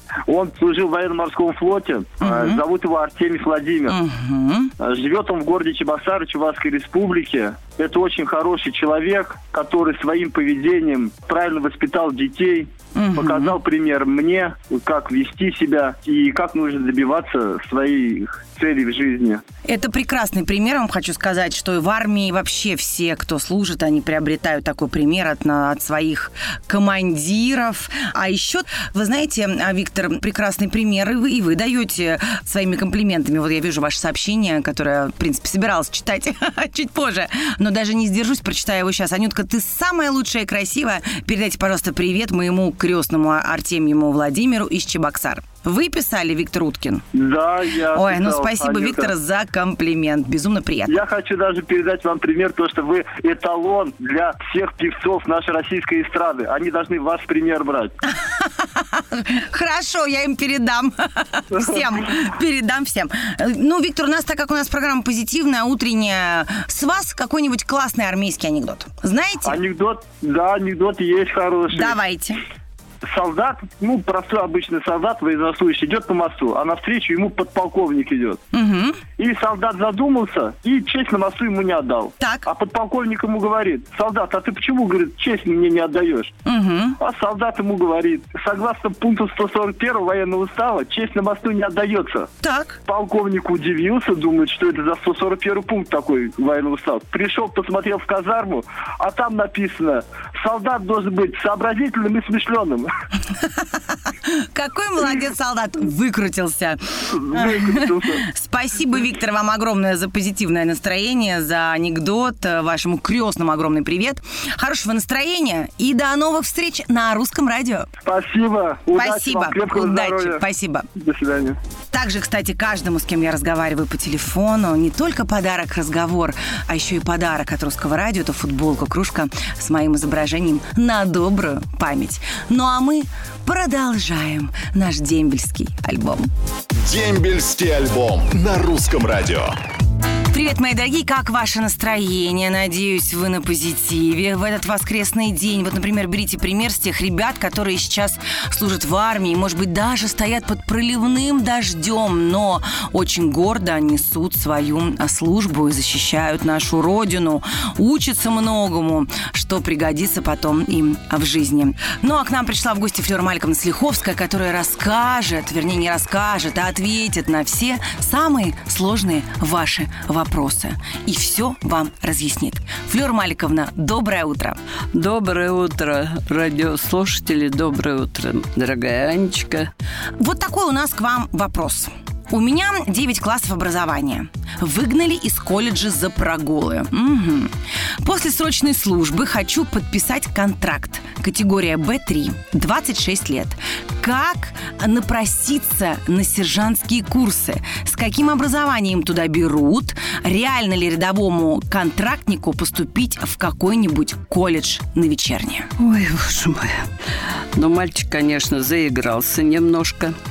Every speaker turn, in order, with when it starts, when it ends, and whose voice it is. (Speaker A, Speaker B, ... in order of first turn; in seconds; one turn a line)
Speaker A: 0.3-4.0
Speaker B: 2.2-2.6
Speaker B: 3.9-4.7
Speaker A: 4.8-19.4
Speaker B: 12.9-13.6
Speaker B: 19.6-47.0
Speaker A: 47.1-49.1
Speaker B: 47.9-50.9
Speaker A: 50.9-58.0
Speaker B: 58.2-69.6
Speaker A: 69.5-72.0
Speaker B: 71.7-72.4
Speaker A: 73.1-78.4
Speaker B: 78.5-79.0
Speaker A: 79.2-86.3
Speaker B: 82.2-82.5
Speaker B: 86.5-87.0
Speaker A: 87.0-92.3
Speaker B: 92.4-92.8
Speaker A: 92.9-102.9
Speaker B: 104.2-117.9
Speaker A: 107.1-108.2
Speaker A: 118.0-120.4
Speaker B: 118.9-120.9
Speaker A: 121.0-121.6
Speaker B: 121.9-136.3
Speaker C: 136.8-139.5
Speaker B: 140.3-174.6
Speaker D: 174.9-179.7
Speaker B: 180.2-187.5
Speaker B: 188.0-205.7
Speaker D: 205.8-206.7
Speaker D: 207.6-210.1